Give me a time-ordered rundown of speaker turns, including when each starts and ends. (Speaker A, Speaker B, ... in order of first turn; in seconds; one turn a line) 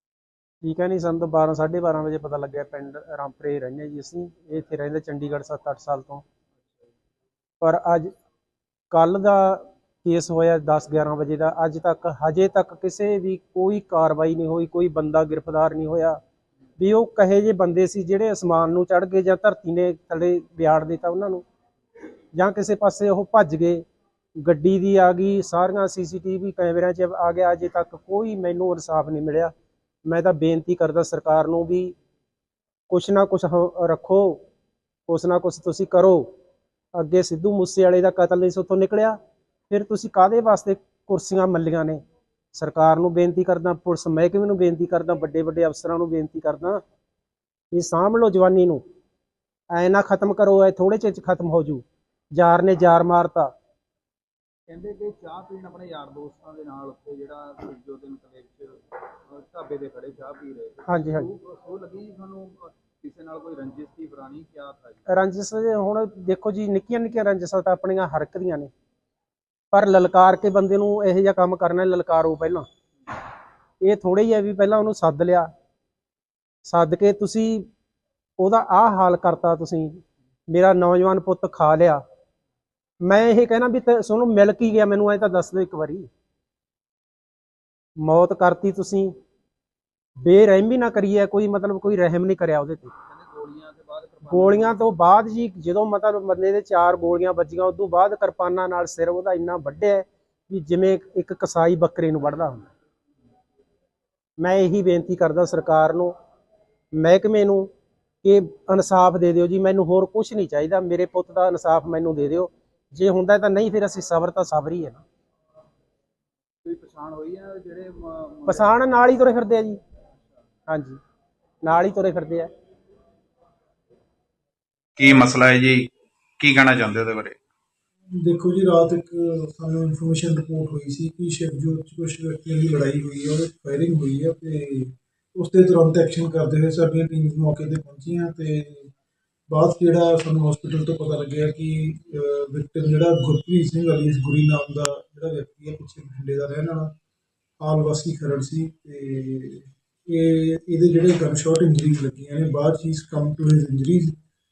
Speaker A: 0.6-6.2
Speaker A: 7.6-8.1
Speaker A: 8.9-16.2
Speaker A: 16.8-21.4
Speaker A: 22.3-23.8
Speaker A: 24.4-29.5
Speaker A: 30.1-31.9
Speaker A: 32.9-34.4
Speaker A: 35.1-36.2
Speaker A: 36.9-39.2
Speaker A: 39.7-42.0
Speaker A: 42.5-46.8
Speaker A: 47.7-48.8
Speaker A: 49.7-53.5
Speaker B: 54.7-65.0
Speaker A: 60.9-61.3
Speaker A: 65.1-68.7
Speaker A: 69.7-72.6
Speaker A: 73.8-75.5
Speaker A: 76.6-77.7
Speaker A: 78.4-82.0
Speaker A: 83.0-86.1
Speaker A: 88.0-89.1
Speaker A: 90.2-92.9
Speaker B: 93.1-94.8
Speaker A: 94.3-102.7
Speaker A: 104.4-106.1
Speaker A: 106.9-107.7
Speaker A: 108.2-115.0
Speaker B: 116.6-118.9
Speaker A: 118.5-119.8
Speaker A: 120.7-121.0
Speaker A: 121.6-122.5
Speaker C: 125.0-125.9
Speaker C: 126.4-127.3
Speaker D: 128.1-138.9
Speaker D: 139.5-146.9
Speaker D: 147.6-154.2